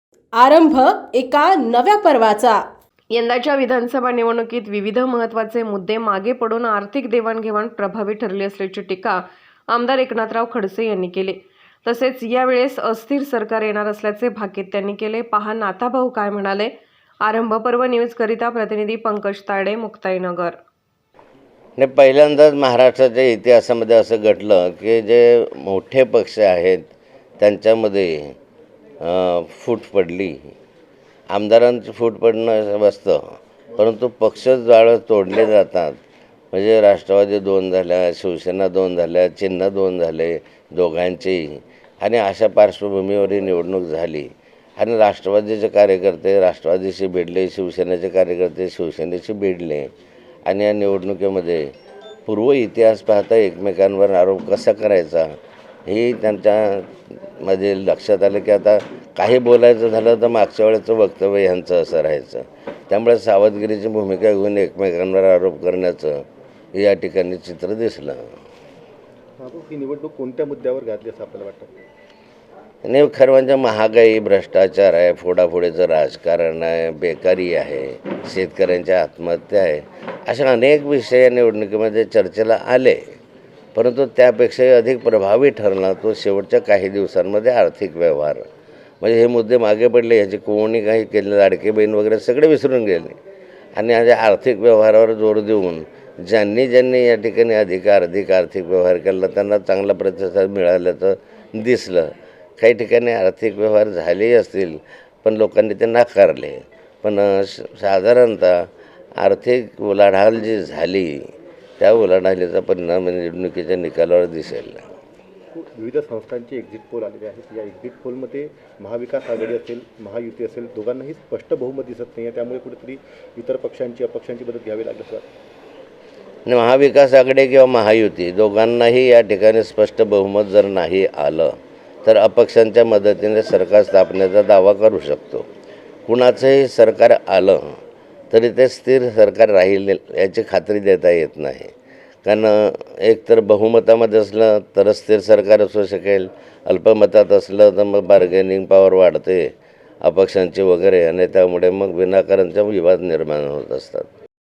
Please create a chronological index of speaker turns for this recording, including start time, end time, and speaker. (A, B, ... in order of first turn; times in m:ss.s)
0:00.4-0:02.6 A
0:03.1-0:16.7 B
0:17.2-0:20.6 B
0:21.8-0:28.3 C
0:29.0-0:30.4 C
0:31.3-0:36.0 C
0:36.5-0:49.9 C
0:50.5-0:51.7 C
0:52.3-0:55.3 C
0:55.9-1:08.2 C
1:09.4-1:11.7 D
1:12.8-1:23.1 C
1:23.8-1:28.4 C
1:29.0-1:33.2 C
1:33.8-1:48.7 C
1:49.2-1:51.3 C
1:51.8-1:54.8 C
1:55.5-2:05.3 D
2:06.5-2:11.5 C
2:12.0-2:15.5 C
2:16.1-2:17.7 C
2:18.3-2:21.7 C
2:22.2-2:29.5 C
2:30.0-2:34.1 C